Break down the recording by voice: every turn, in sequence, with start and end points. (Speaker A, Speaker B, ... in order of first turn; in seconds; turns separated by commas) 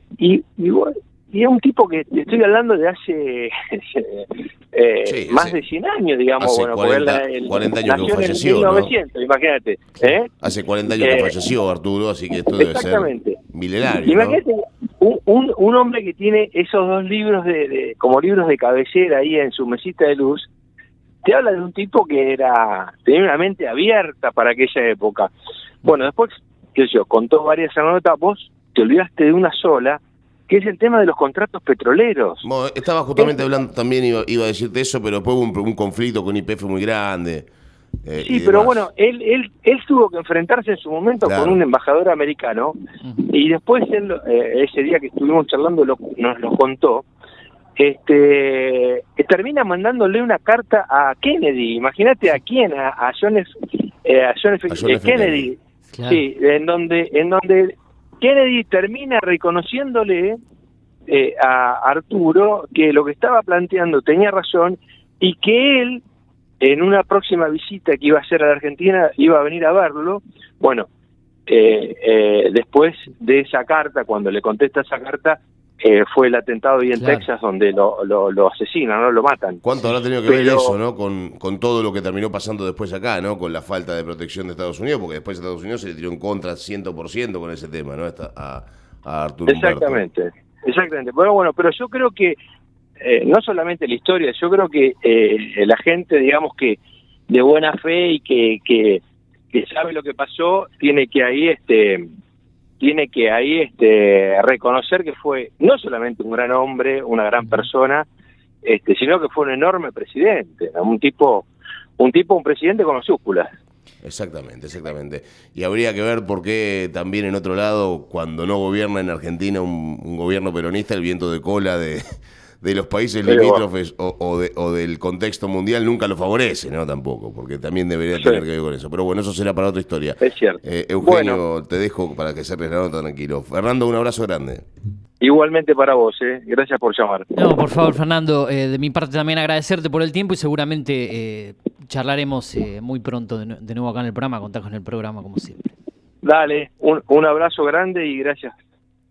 Speaker A: 0.2-10.3, Speaker B: 5.0-5.6, Speaker B: 6.4-8.9, Speaker B: 10.4-14.4, Speaker A: 11.0-11.3, Speaker A: 12.6-13.4, Speaker A: 14.1-20.5, Speaker A: 21.2-25.3, Speaker A: 25.8-32.4, Speaker B: 32.4-37.5, Speaker B: 38.0-38.9, Speaker A: 38.2-42.8, Speaker B: 41.2-41.6, Speaker A: 43.3-47.0, Speaker A: 47.8-53.5, Speaker A: 54.0-60.4, Speaker B: 54.7-55.5, Speaker C: 55.9-56.2, Speaker A: 61.1-66.0, Speaker A: 66.6-70.9, Speaker A: 71.5-79.6, Speaker C: 77.0-77.2, Speaker B: 79.6-90.0, Speaker A: 80.3-80.8, Speaker A: 89.5-92.4, Speaker A: 93.0-102.1, Speaker A: 102.8-108.1, Speaker A: 108.6-111.5, Speaker A: 112.0-113.5, Speaker B: 114.0-122.0, Speaker B: 122.6-134.7, Speaker A: 123.3-123.6, Speaker A: 128.2-128.4, Speaker A: 130.2-131.4, Speaker A: 135.2-137.3, Speaker C: 137.4-145.7, Speaker A: 146.2-148.5